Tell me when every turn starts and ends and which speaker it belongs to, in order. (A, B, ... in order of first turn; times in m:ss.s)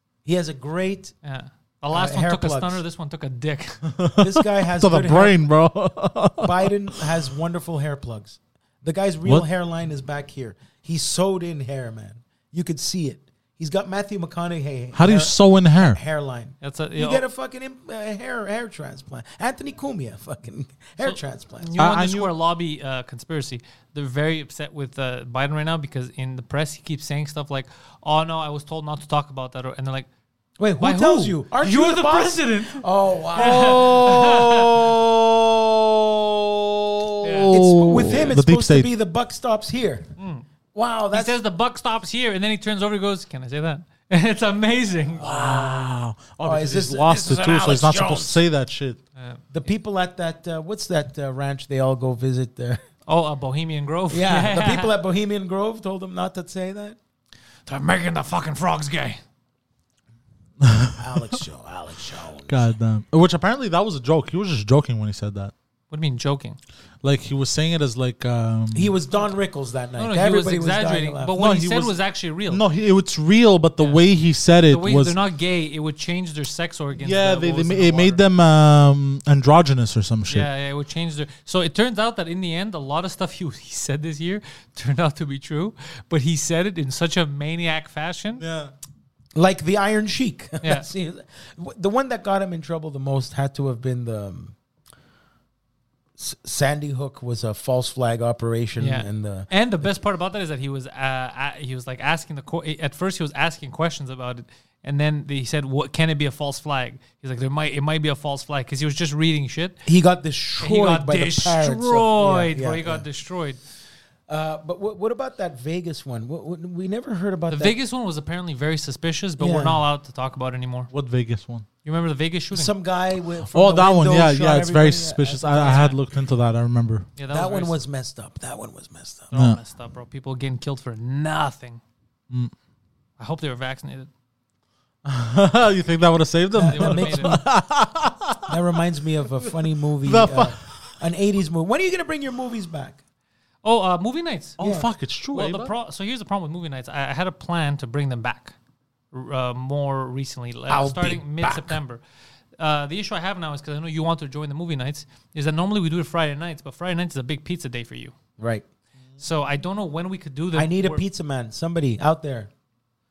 0:00.3-0:01.1 A
0:01.2-0:03.9 B
0:01.9-0:02.8 A
0:03.9-0:06.7 C
0:04.2-0:05.4 A
0:06.4-0:21.7 A
0:14.9-0:16.0 C
0:16.6-0:17.2 B
0:21.0-0:30.1 B
0:21.8-0:22.3 C
0:30.6-0:34.2 A
0:30.8-0:35.0 B
0:33.4-0:35.1 C
0:36.6-0:38.9 C
0:37.2-0:38.3 B
0:37.5-0:40.1 A
0:40.2-0:40.4 B
0:40.7-0:41.4 A
0:41.1-0:45.5 B
0:45.2-0:49.0 C
0:45.3-0:45.8 A
0:46.4-0:48.4 A
0:49.2-0:49.4 B
0:49.5-0:52.8 A
0:53.1-0:54.9 B
0:54.1-0:57.0 A
0:57.7-0:59.2 B
1:00.6-1:01.4 C
1:01.0-1:02.7 A
1:02.5-1:05.5 C
1:05.9-1:06.6 B
1:07.0-1:08.9 C
1:08.7-1:11.3 A
1:10.0-1:12.6 B
1:11.3-1:11.9 C
1:12.5-1:15.2 C
1:14.7-1:18.2 B
1:17.0-1:20.5 C
1:20.3-1:28.4 B
1:28.4-1:28.7 C
1:29.4-1:34.5 A
1:36.2-1:39.5 A
1:38.8-1:49.8 B
1:49.9-1:53.1 A
1:50.6-1:53.6 B
1:54.3-1:57.8 A
1:57.5-2:00.9 B
1:59.4-1:59.8 A
2:00.9-2:01.7 C
2:01.8-2:02.7 B
2:02.5-2:05.9 A
2:03.5-2:07.1 C
2:05.5-2:06.0 B
2:07.2-2:07.8 B
2:07.3-2:09.3 A
2:09.3-2:11.8 B
2:09.3-2:09.6 C
2:13.2-2:14.1 B
2:15.0-2:18.6 C
2:16.6-2:17.4 A
2:16.7-2:17.4 B
2:18.5-2:23.0 A
2:20.0-2:20.9 C
2:23.6-2:24.6 B
2:24.6-2:25.7 C
2:24.6-2:24.9 A
2:25.3-2:28.6 B
2:29.1-2:32.0 B
2:30.7-2:31.8 A
2:32.6-2:38.1 B
2:38.4-2:38.6 A
2:39.2-2:41.0 B
2:40.6-2:42.5 A